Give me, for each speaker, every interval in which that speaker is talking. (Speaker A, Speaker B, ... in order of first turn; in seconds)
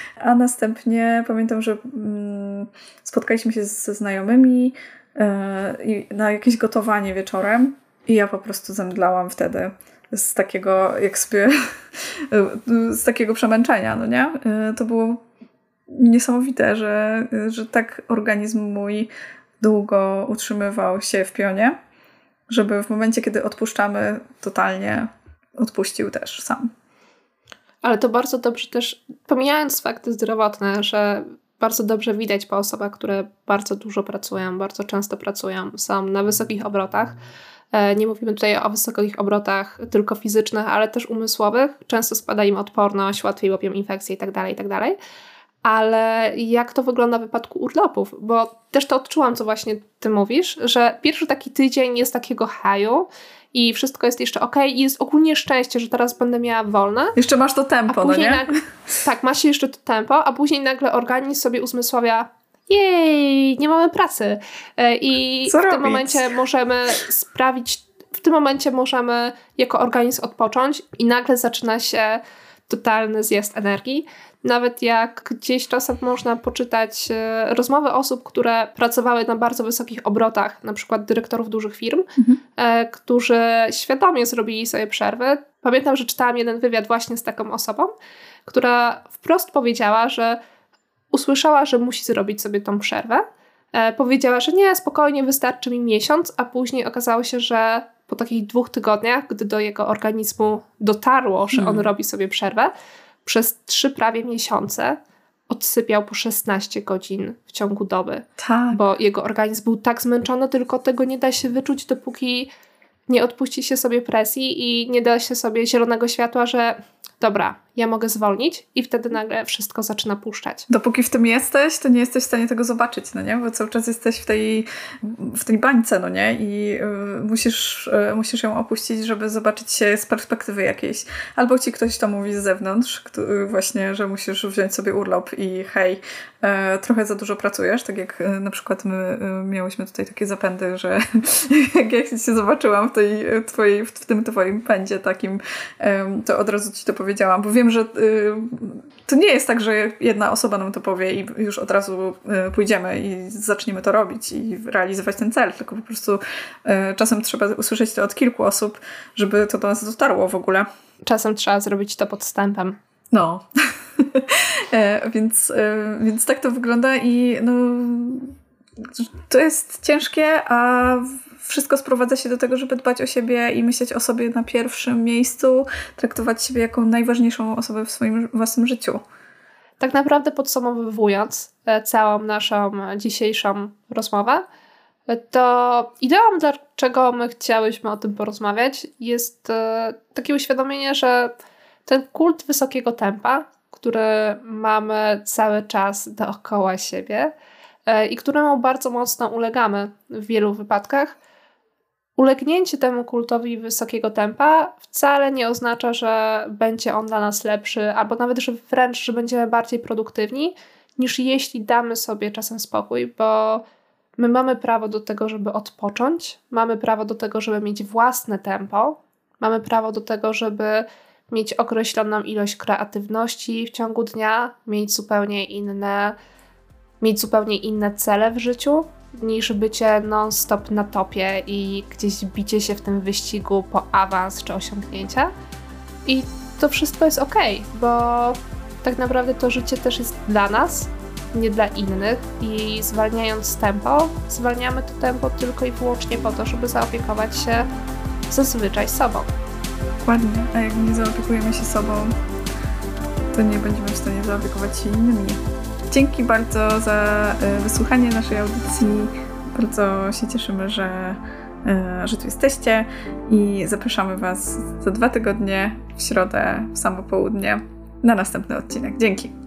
Speaker A: 0.2-15.2, 15.9-21.8, 22.5-26.7, 57.1-58.5, 65.5-66.3, 101.5-101.9, 108.4-108.8, 120.7-160.7, 163.1-179.0, 250.0-252.1, 253.3-269.3
Speaker B: 27.8-37.2, 37.7-45.0, 45.6-57.1, 57.9-87.9, 88.5-90.4, 91.1-102.7, 103.2-112.5, 113.1-120.7, 161.0-162.8, 179.8-184.4, 185.1-191.3, 191.8-197.3, 197.9-201.2, 202.2-213.6, 214.2-226.2, 227.0-235.3, 236.1-247.7, 248.3-249.3